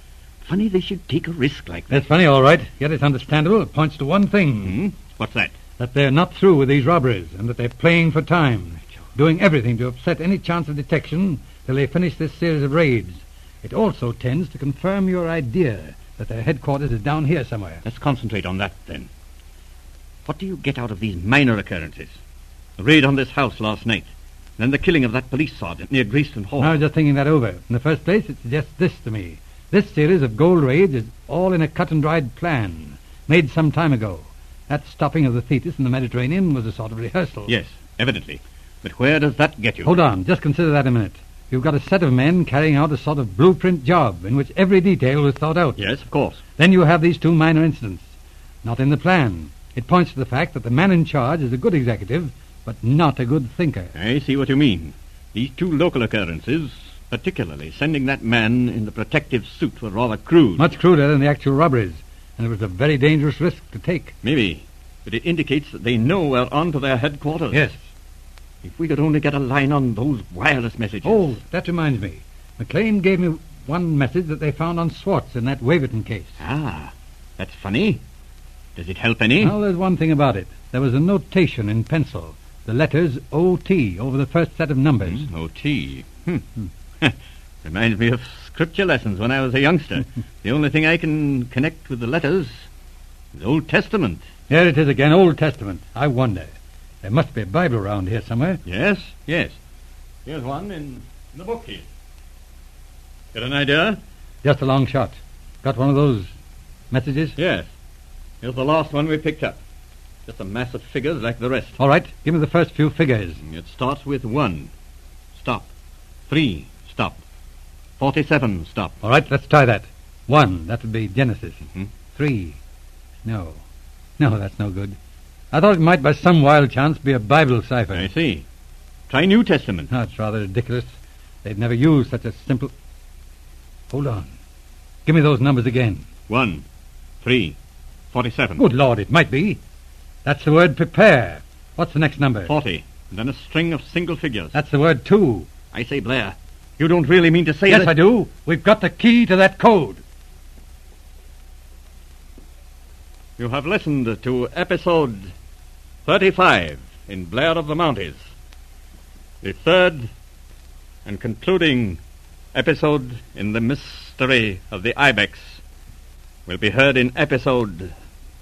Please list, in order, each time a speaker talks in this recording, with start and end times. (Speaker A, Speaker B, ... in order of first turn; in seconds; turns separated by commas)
Speaker A: 0.4-2.0, Speaker B: 1.9-4.8, Speaker A: 4.6-5.5, Speaker B: 5.8-17.8, Speaker A: 17.9-19.1, Speaker A: 20.3-22.2, Speaker A: 22.8-26.8, Speaker B: 26.6-37.5, Speaker A: 37.5-40.0, Speaker B: 39.8-45.8, Speaker A: 45.8-46.4, Speaker B: 46.6-48.1, Speaker B: 48.6-53.9, Speaker A: 54.0-60.7, Speaker B: 60.6-64.1, Speaker A: 64.2-67.7, Speaker B: 67.5-67.8, Speaker A: 68.6-71.4, Speaker B: 71.0-76.4, Speaker A: 76.4-78.0, Speaker A: 78.8-79.6, Speaker B: 79.4-85.3, Speaker A: 85.0-86.5, Speaker A: 87.0-92.7, Speaker A: 93.3-94.3, Speaker B: 94.5-98.6, Speaker A: 98.7-99.6, Speaker A: 100.3-101.9, Speaker A: 103.3-104.0, Speaker B: 104.4-106.3, Speaker B: 106.9-107.4, Speaker A: 107.4-107.7, Speaker A: 108.4-109.6, Speaker A: 110.3-111.8, Speaker B: 111.8-113.4, Speaker A: 113.4-114.7, Speaker A: 115.3-115.7, Speaker A: 116.3-117.2, Speaker A: 118.0-119.0, Speaker B: 119.0-122.6, Speaker B: 123.2-123.6, Speaker B: 124.2-125.0, Speaker B: 125.5-128.1, Speaker A: 127.9-128.4, Speaker A: 129.1-129.9, Speaker B: 129.9-130.9, Speaker B: 131.4-132.7, Speaker B: 133.9-134.3, Speaker B: 135.1-136.1, Speaker A: 136.3-136.7, Speaker A: 137.2-137.6, Speaker A: 138.1-138.6, Speaker B: 138.6-139.6, Speaker B: 140.2-142.5, Speaker A: 142.5-144.6, Speaker B: 144.5-145.5, Speaker A: 145.7-148.0, Speaker B: 147.7-150.0, Speaker A: 153.4-155.3, Speaker A: 156.1-158.3, Speaker A: 159.4-160.1, Speaker A: 161.1-162.0, Speaker A: 162.5-165.6, Speaker A: 166.5-167.9